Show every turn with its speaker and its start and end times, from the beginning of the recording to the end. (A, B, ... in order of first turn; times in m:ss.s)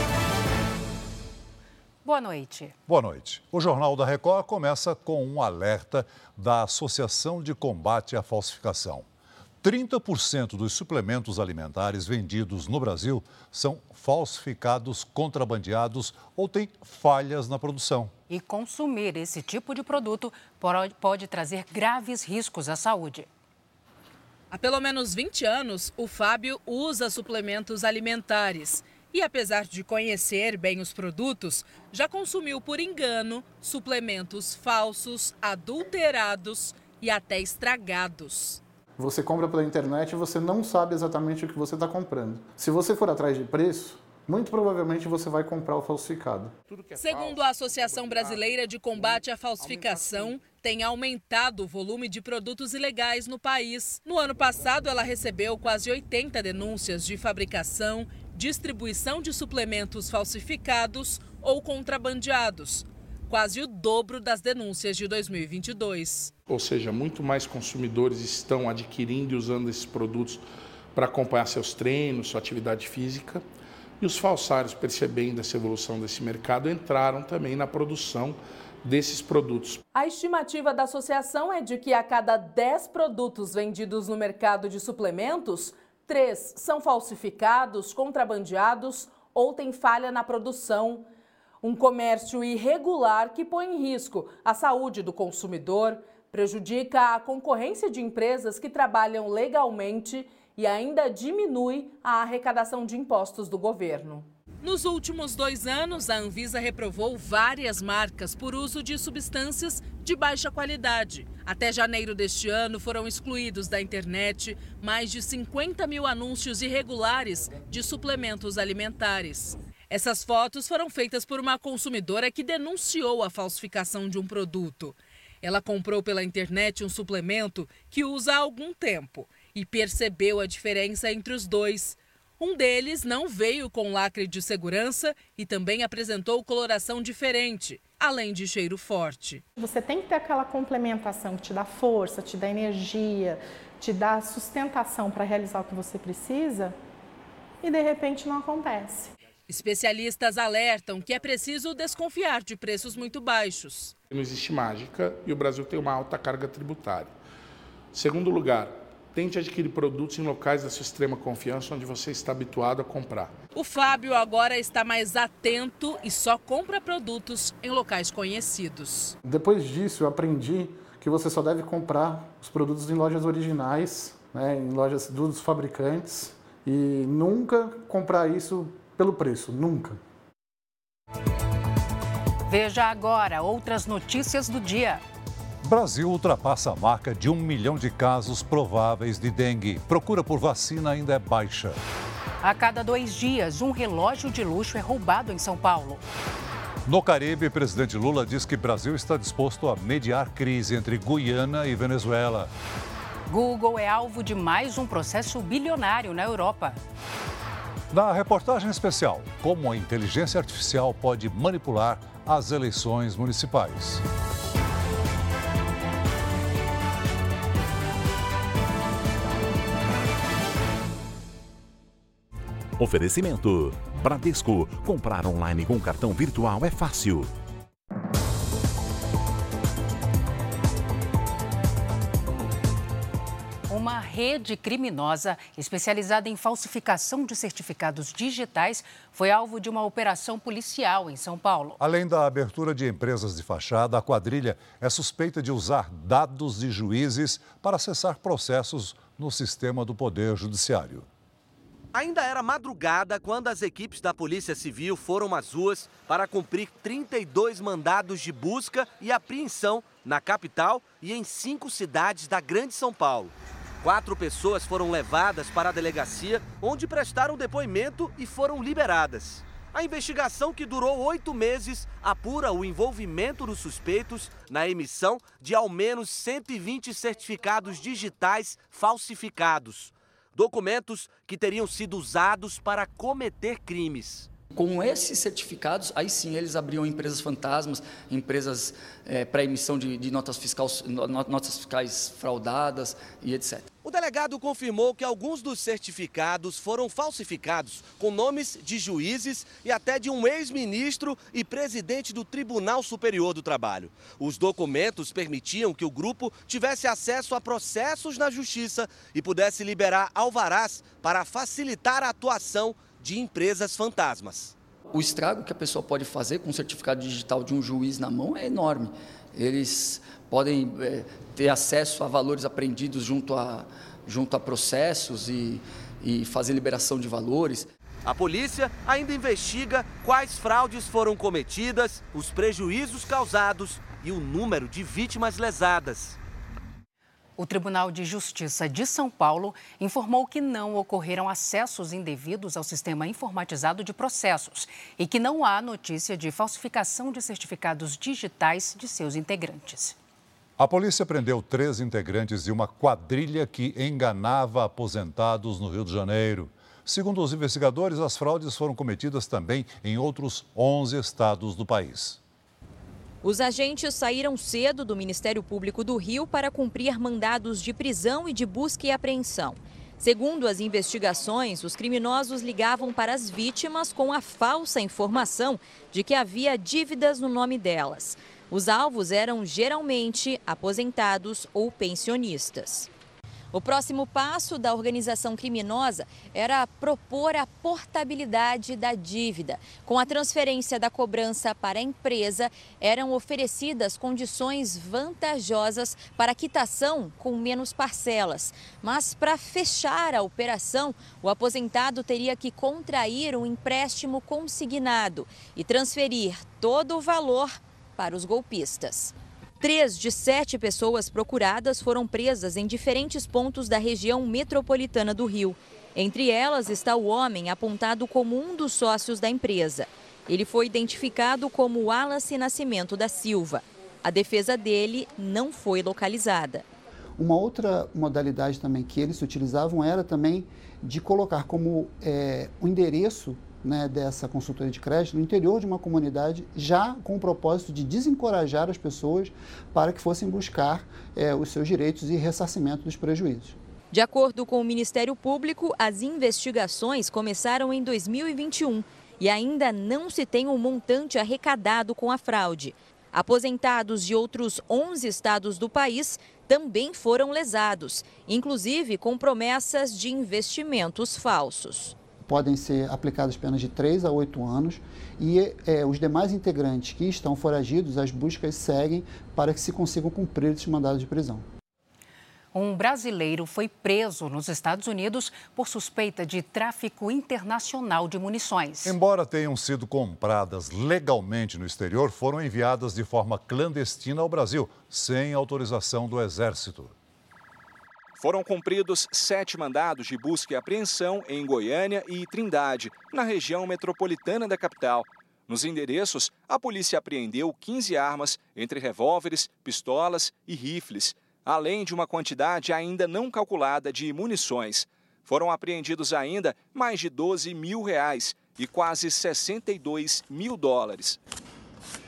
0:02.0-0:02.7 A
0:02.9-0:09.0 B
0:09.6-0:18.1 B
0:18.3-0:23.3 A
0:24.5-0:38.6 C
0:39.0-0:46.5 D
0:46.7-0:50.4 E
0:47.0-1:06.3 C
1:06.5-1:13.4 E
1:14.0-1:19.8 E
1:19.9-1:31.0 C
1:31.6-2:19.4 C
2:19.6-2:26.8 F
2:27.6-2:29.1 F
2:29.5-2:33.9 C
2:34.1-2:37.1 E
2:37.9-2:43.3 E
2:43.5-2:49.1 C
2:49.2-3:00.0 D
3:02.5-3:05.0 A
3:05.6-3:11.8 B
3:12.4-3:16.0 A
3:16.8-3:22.5 B
3:23.3-3:26.8 A
3:27.9-3:34.0 B
3:42.8-3:47.3 G
3:53.7-4:01.8 A
4:01.8-4:11.0 B
4:11.9-4:44.3 H
4:44.5-4:53.7 I
4:53.8-5:14.5 H
5:14.9-5:27.7 I
5:28.0-5:36.2 H
5:37.4-5:50.0 A
5:50.6-6:02.2 B
6:03.2-6:22.9 J
6:23.5-7:06.6 J
7:07.3-7:19.3 K
7:19.8-7:23.5 K
7:23.9-7:42.0 J
7:42.4-7:51.4 K
7:52.5-7:59.0 A
7:58.8-8:06.9 B
8:08.2-8:31.2 L